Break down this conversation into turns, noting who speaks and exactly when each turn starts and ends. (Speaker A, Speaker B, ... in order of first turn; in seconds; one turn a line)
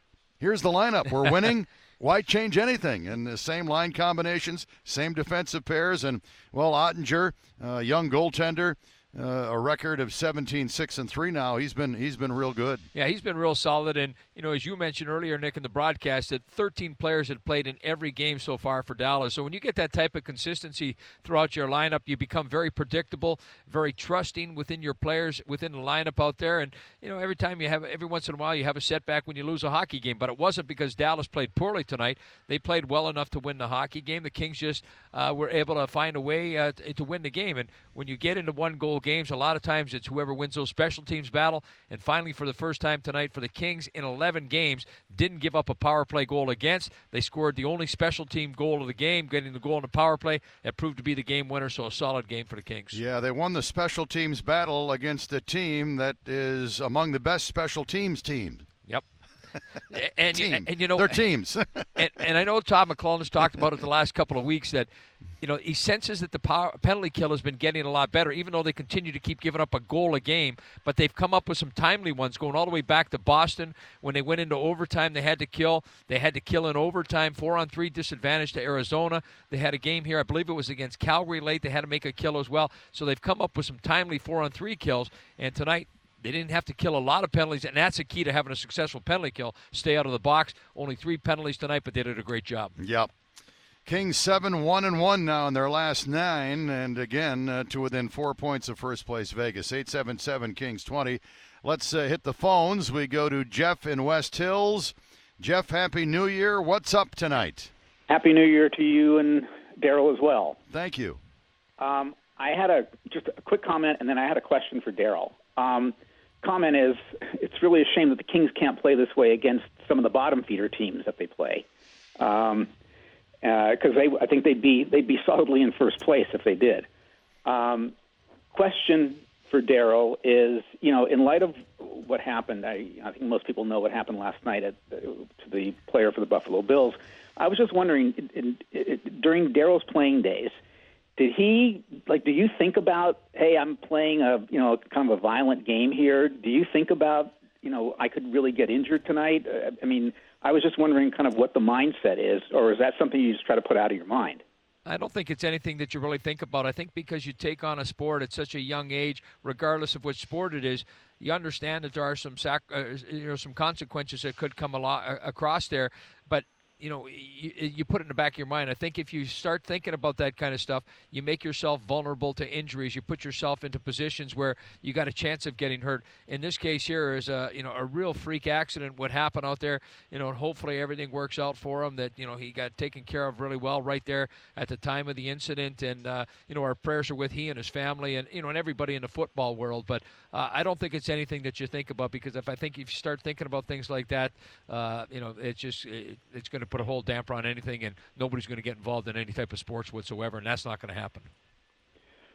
Speaker A: 0.4-12.9
Speaker B: 12.9-53.0
Speaker A: 52.9-58.6
Speaker B: 59.9-61.2
Speaker A: 60.3-61.9
Speaker B: 62.0-64.9
Speaker B: 65.4-92.7
Speaker A: 92.8-93.1
Speaker A: 93.9-107.7
Speaker C: 108.1-110.6
Speaker A: 110.7-111.2
Speaker C: 111.8-121.7
Speaker C: 122.2-122.7
Speaker C: 123.4-126.9
Speaker C: 127.5-127.9
Speaker C: 128.5-140.6
Speaker C: 141.2-154.4
Speaker B: 154.9-201.3